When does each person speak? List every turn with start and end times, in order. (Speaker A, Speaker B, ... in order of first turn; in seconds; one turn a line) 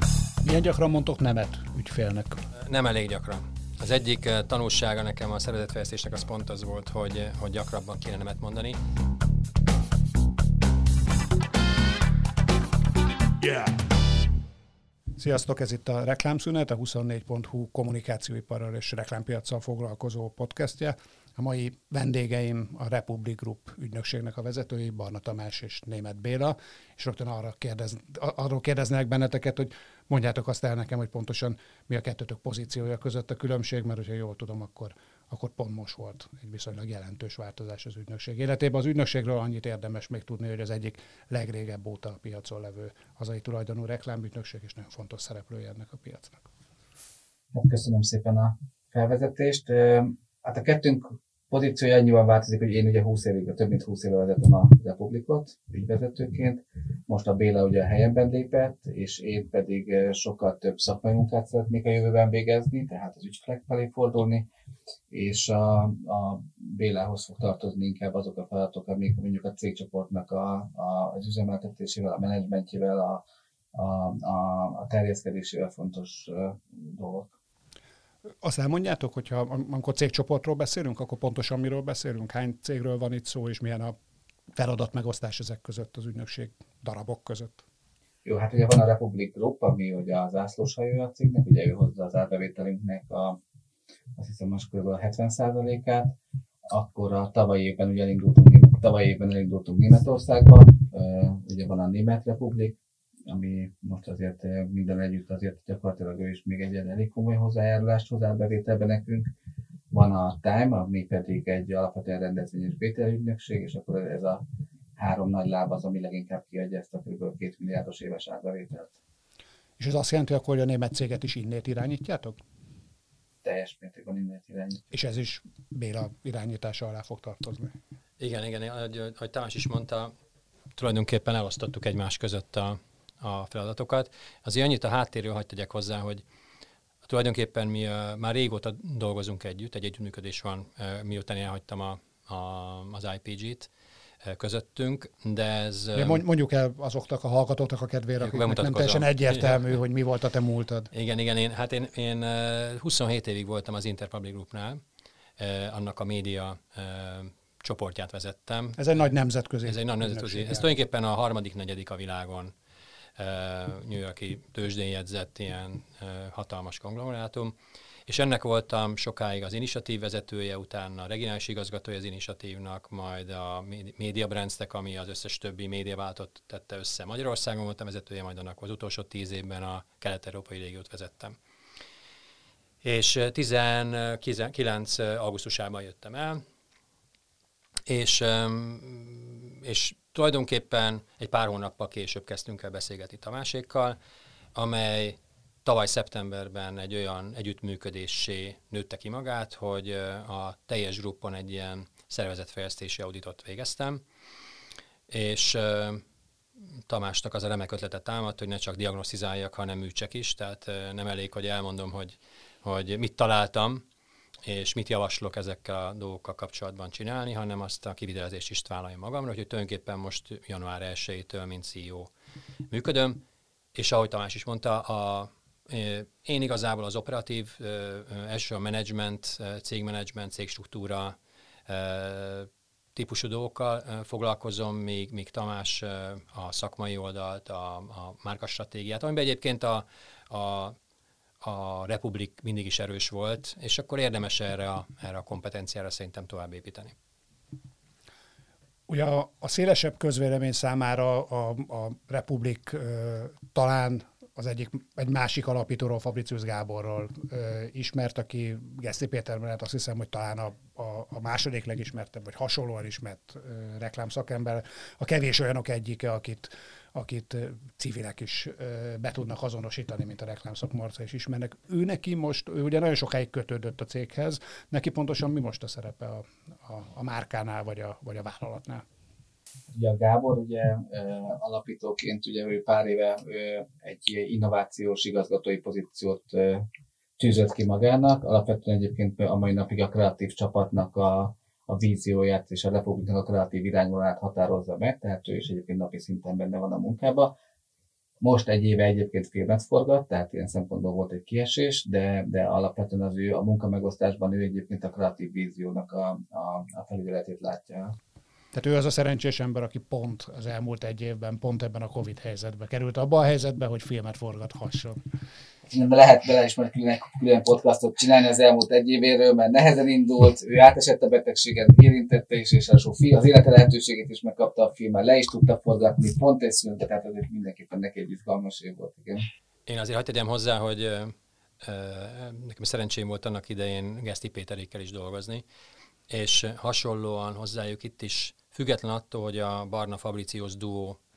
Speaker A: 0.4-2.4
Speaker B: 2.6-8.8
Speaker A: 13.4-13.7
Speaker A: 15.2-46.4
Speaker C: 47.5-64.4
Speaker C: 65.1-73.2
Speaker C: 73.7-77.3
Speaker A: 78.4-84.0
Speaker A: 84.5-87.6
Speaker C: 88.2-93.4
Speaker C: 94.2-96.1
Speaker C: 96.7-102.8
Speaker C: 103.3-109.3
Speaker C: 109.9-114.4
Speaker C: 115.0-119.0
Speaker A: 119.8-122.4
Speaker C: 123.4-124.9
Speaker A: 124.9-127.8
Speaker B: 128.2-130.1
Speaker B: 130.7-136.2
Speaker B: 137.1-143.7
Speaker B: 144.2-146.2
Speaker A: 145.9-150.9
Speaker B: 148.2-149.7
Speaker B: 150.9-154.8
Speaker B: 155.4-158.8
Speaker A: 158.8-160.6
Speaker B: 159.6-162.5
Speaker B: 163.2-167.6
Speaker B: 168.1-181.3
Speaker B: 182.8-186.4
Speaker B: 187.8-194.0
Speaker B: 194.5-204.0
Speaker B: 205.1-206.0
Speaker B: 206.9-213.8
Speaker B: 214.4-222.1
Speaker B: 222.7-223.2
Speaker B: 223.7-231.2
Speaker B: 231.7-240.8
Speaker B: 241.4-246.9
Speaker A: 248.9-278.8
Speaker C: 279.7-286.6
Speaker C: 287.2-297.3
Speaker C: 298.2-307.9
Speaker A: 308.5-315.0
Speaker C: 315.7-329.2
Speaker B: 329.7-335.4
Speaker B: 336.1-341.0